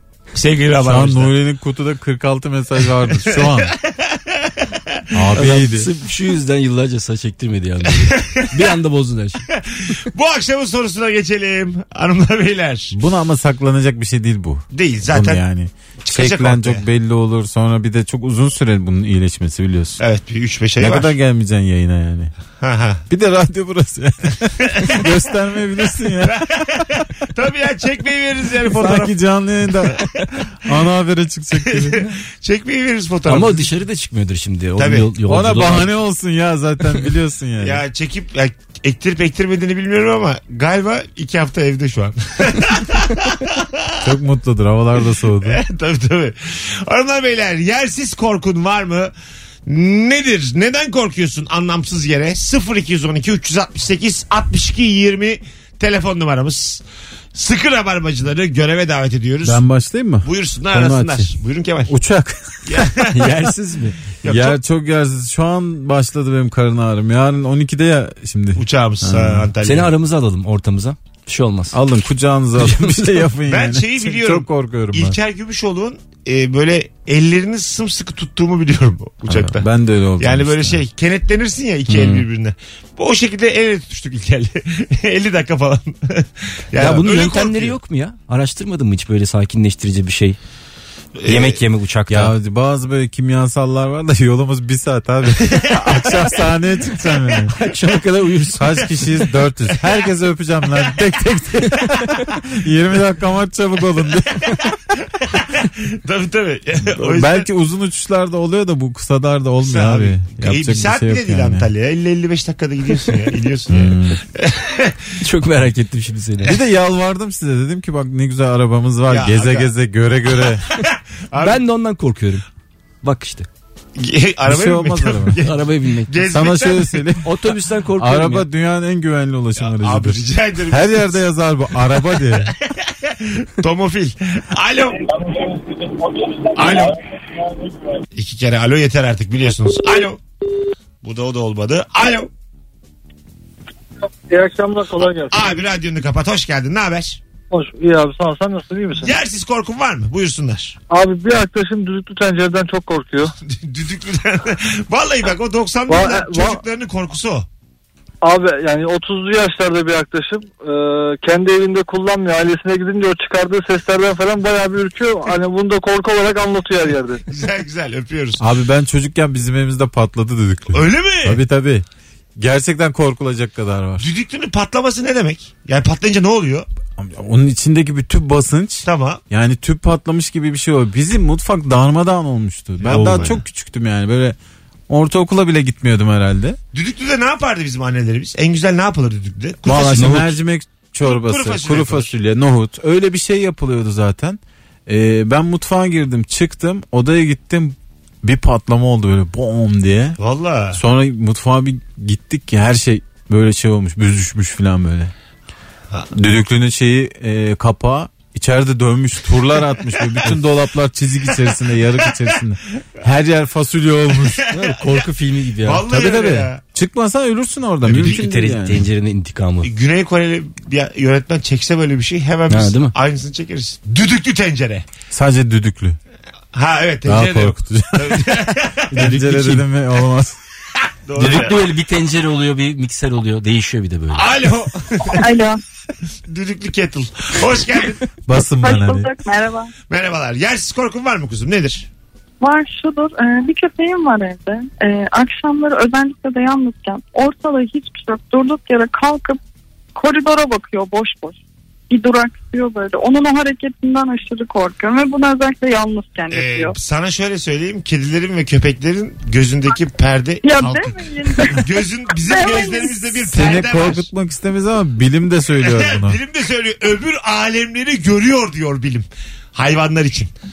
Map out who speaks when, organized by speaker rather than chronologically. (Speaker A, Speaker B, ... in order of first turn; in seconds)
Speaker A: 0.3-1.4, 2.8-5.1, 7.9-8.6, 9.5-13.0, 14.7-15.4, 16.0-16.9, 20.0-21.1, 22.6-23.0, 24.8-25.1, 26.2-29.2, 29.7-30.0, 31.5-33.7, 34.8-35.1, 37.6-44.0, 45.4-49.1, 49.7-56.8, 57.3-59.6, 60.2-61.9, 62.6-63.3, 64.2-64.6, 68.6-69.9, 73.5-79.7, 80.2-87.8, 91.2-91.6, 95.5-95.9, 105.2-107.5, 109.6-115.1, 119.1-119.7, 120.5-121.6, 124.0-127.1, 129.6-131.2, 132.7-135.2, 136.5-137.0, 138.1-140.2, 141.0-142.3, 145.3-147.2, 148.9-150.8, 153.4-157.5, 167.2-168.4, 170.7-171.4, 174.0-176.7, 178.8-179.2, 182.8-183.4, 186.7-190.4, 191.0-192.1, 200.2-200.8, 209.9-210.4, 214.2-215.1, 215.6-216.6, 217.9-218.2, 219.6-224.9, 226.5-229.1, 231.1-231.6, 234.1-235.2, 236.3-238.0, 239.9-241.9, 256.3-264.1, 265.6-270.3
Speaker B: 0.8-3.7, 5.1-5.9, 12.9-20.0, 20.8-22.3, 23.1-26.5, 28.7-32.1, 35.3-37.8, 44.0-45.6, 59.4-61.3, 61.9-63.1, 64.3-69.5, 71.7-75.2, 79.3-80.8, 92.1-97.5, 98.6-104.6, 107.0-111.7, 113.7-114.2, 116.4-120.7, 124.5-125.4, 126.2-127.3, 128.0-132.5, 168.4-171.8, 172.4-174.1, 177.0-184.4, 184.9-186.6, 189.7-200.2, 200.7-205.1, 206.1-214.4, 215.9-218.9, 225.1-226.0, 227.1-228.4, 228.9-230.4, 238.3-239.1, 263.3-266.2
Speaker C: 5.3-9.5, 33.3-35.9, 63.1-64.0, 69.6-71.8, 72.6-73.3, 81.9-82.3, 86.8-90.4, 91.3-92.3, 97.5-98.9, 115.2-116.6, 121.4-122.5, 123.0-123.5, 125.4-126.2, 127.2-128.5, 182.9-183.4, 190.0-190.2, 214.5-216.1, 217.8-219.7, 222.5-222.9, 228.9-229.7, 231.2-234.3
Speaker D: 144.3-145.3, 147.5-149.1, 150.9-153.3, 155.9-156.6, 158.2-167.2
Speaker E: 235.2-235.6, 238.6-239.7, 242.4-249.4, 249.9-251.4, 251.9-256.8, 260.4-263.0